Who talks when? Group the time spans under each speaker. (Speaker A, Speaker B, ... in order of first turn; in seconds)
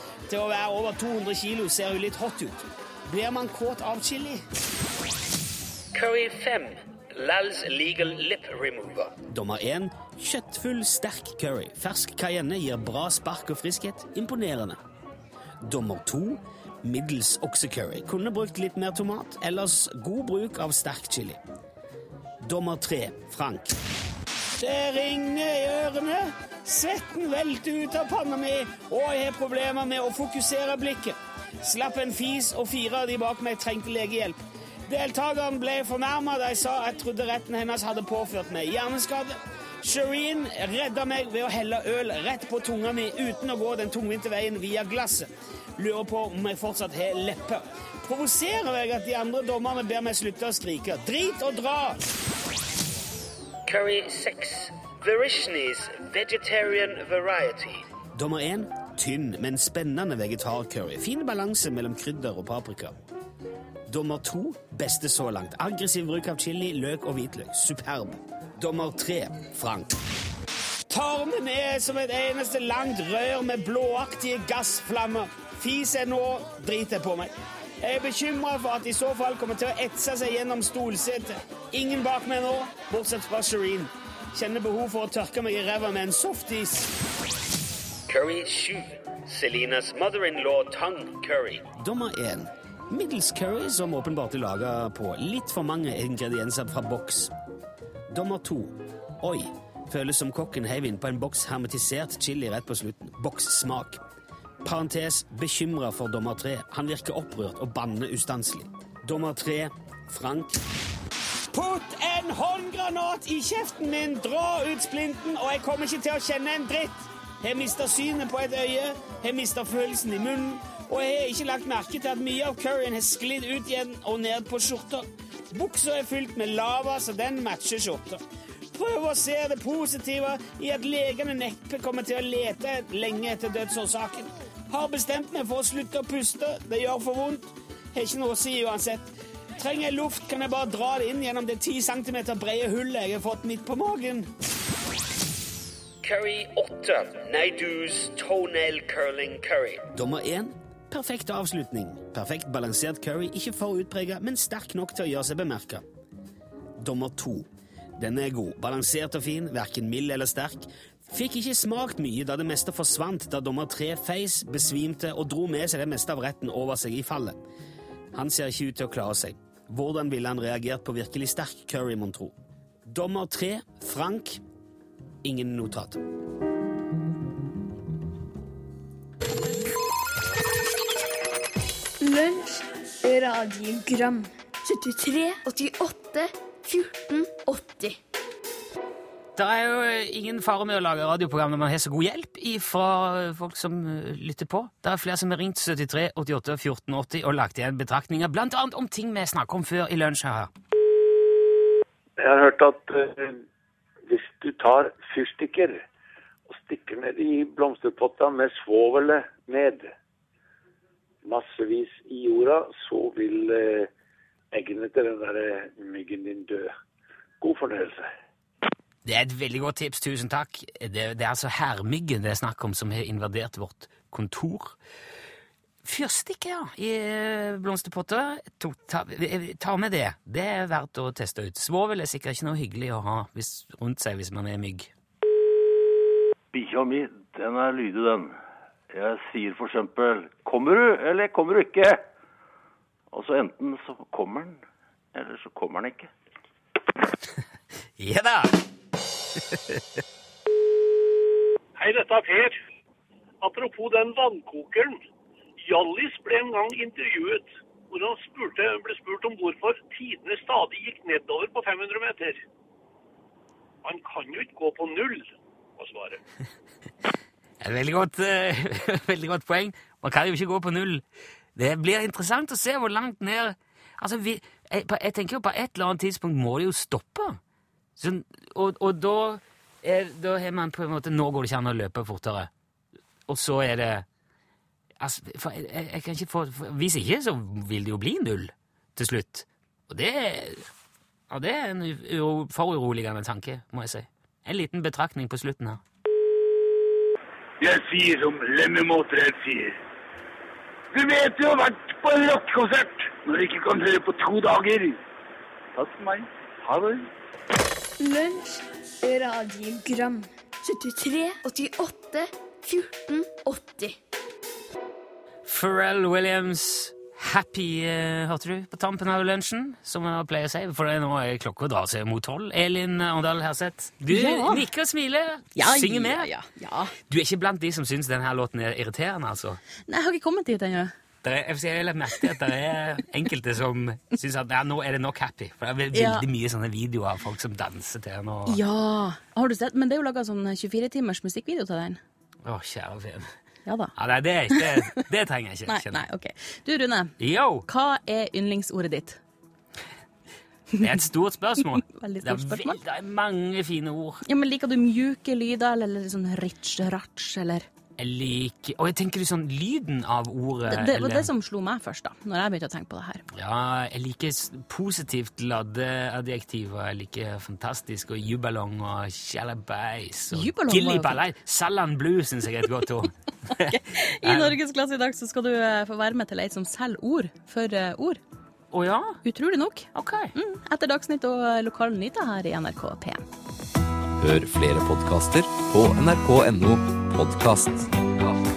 Speaker A: 0.3-4.3, 9.2-14.8, 15.7-16.3, 16.8-21.4, 22.4-23.7, 24.6-45.3, 45.8-51.9, 58.1-62.8, 63.9-68.1, 68.6-69.8, 70.9-77.3, 77.8-86.8, 91.7-97.3, 98.1-98.5, 99.2-103.9, 104.7-110.5, 111.5-125.0, 125.5-128.2, 128.7-137.4, 137.9-139.0, 139.6-144.2, 149.9-155.8, 156.8-157.3, 158.0-167.3, 168.1-172.3, 172.9-174.3, 175.2-175.9, 189.3-200.5, 219.0-224.8, 225.8-234.9, 248.0-248.5, 249.5-249.8, 267.6-271.0, 271.6-277.4, 278.0-282.5, 283.3-284.1, 285.0-290.6, 291.3-295.8, 315.4-326.3, 327.1-329.6, 331.2-338.6, 342.4-343.3, 343.9-346.0, 347.2-347.6, 350.8-354.2, 358.0-361.3, 363.3-374.6, 378.7-379.2, 379.9-380.3
Speaker B: 6.1-6.7, 7.2-9.2, 53.7-57.7, 59.6-61.9, 69.0-69.6, 88.2-88.8, 89.4-91.7, 146.1-149.9
Speaker C: 182.0-188.0, 308.0-314.0
Speaker D: 202.2-203.4, 204.1-205.8, 206.5-209.9, 211.2-213.9, 214.5-216.7, 217.4-218.1
Speaker E: 236.5-238.3, 238.9-242.0, 243.1-244.6, 245.1-246.1
Speaker F: 251.8-252.6, 253.4-255.0, 255.7-262.4, 263.8-266.2
Speaker G: 297.6-299.7, 300.9-305.0, 305.8-307.1
Speaker H: 324.1-324.7, 325.6-326.9, 329.9-330.9, 335.9-336.3, 338.5-342.0, 343.6-343.9, 344.5-344.8, 345.7-347.1, 347.6-349.2, 351.7-352.8, 354.2-357.7, 360.7-363.2, 370.3-371.2, 373.6-378.2, 379.2-383.2
Speaker I: 384.2-387.9